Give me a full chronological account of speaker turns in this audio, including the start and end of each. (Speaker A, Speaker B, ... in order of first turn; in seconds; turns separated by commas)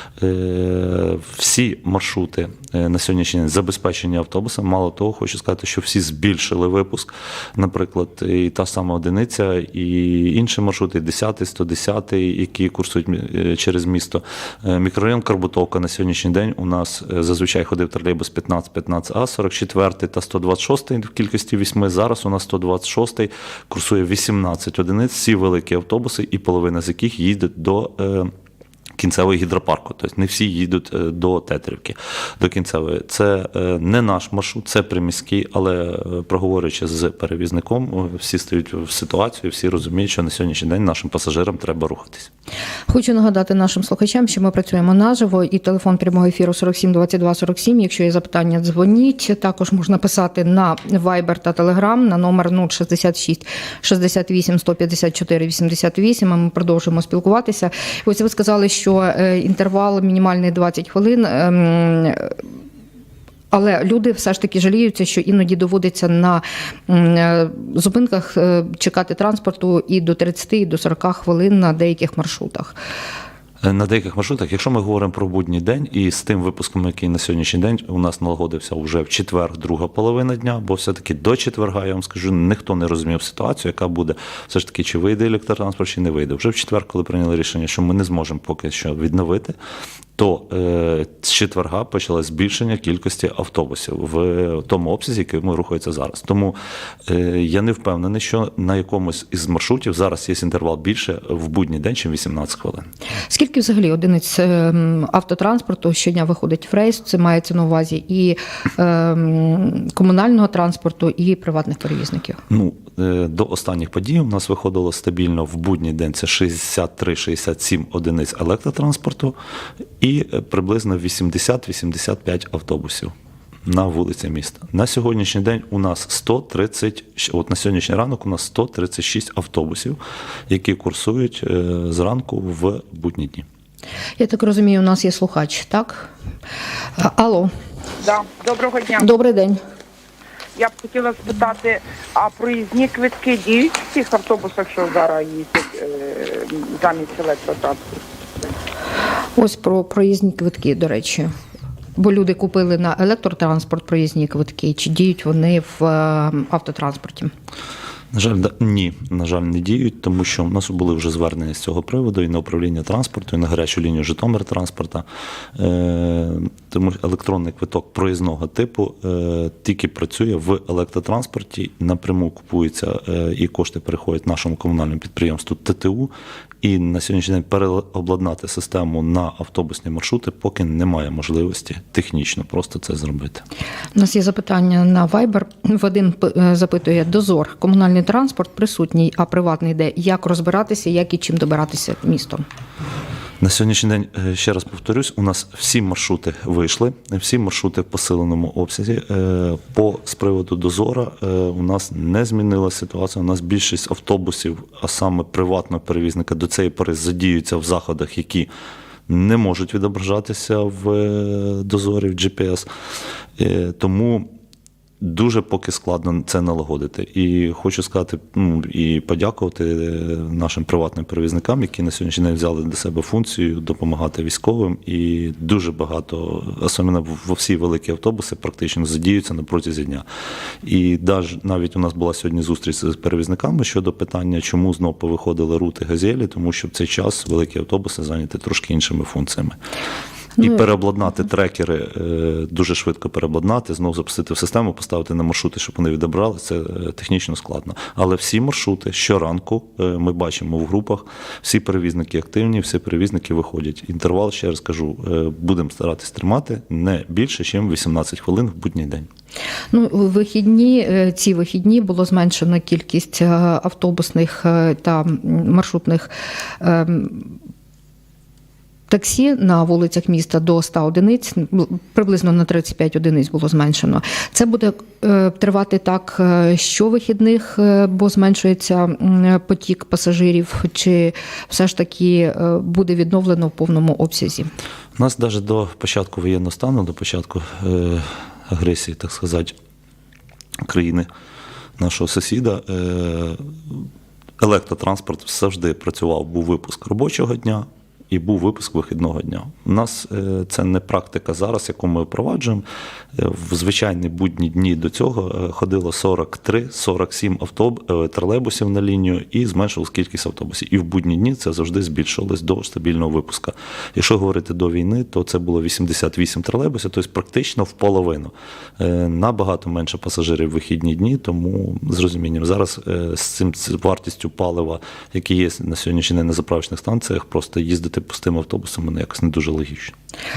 Speaker A: 0.2-28.3, Speaker A: 29.0-42.3, Speaker B: 42.9-62.4, Speaker B: 63.5-72.8, Speaker A: 73.6-89.6, Speaker A: 90.2-102.9, Speaker B: 103.3-112.4, Speaker A: 112.5-119.4, Speaker A: 120.0-123.1, Speaker A: 123.7-133.5, Speaker B: 134.2-136.1, Speaker B: 137.0-137.5, Speaker C: 138.0-139.1, Speaker B: 139.0-139.6, Speaker C: 140.6-148.5, Speaker B: 149.4-151.3, Speaker B: 152.0-157.3, Speaker A: 158.1-176.1, Speaker A: 176.6-183.4, Speaker B: 183.9-192.4, Speaker A: 193.4-208.5, Speaker A: 209.1-212.7, Speaker A: 213.4-214.3, Speaker A: 215.0-230.1, Speaker A: 230.6-239.6, Speaker A: 240.4-259.1, Speaker B: 259.7-267.4, Speaker B: 268.9-284.5, Speaker A: 285.0-289.6, Speaker A: 290.6-291.1, Speaker A: 291.8-293.9, Speaker A: 294.4-329.9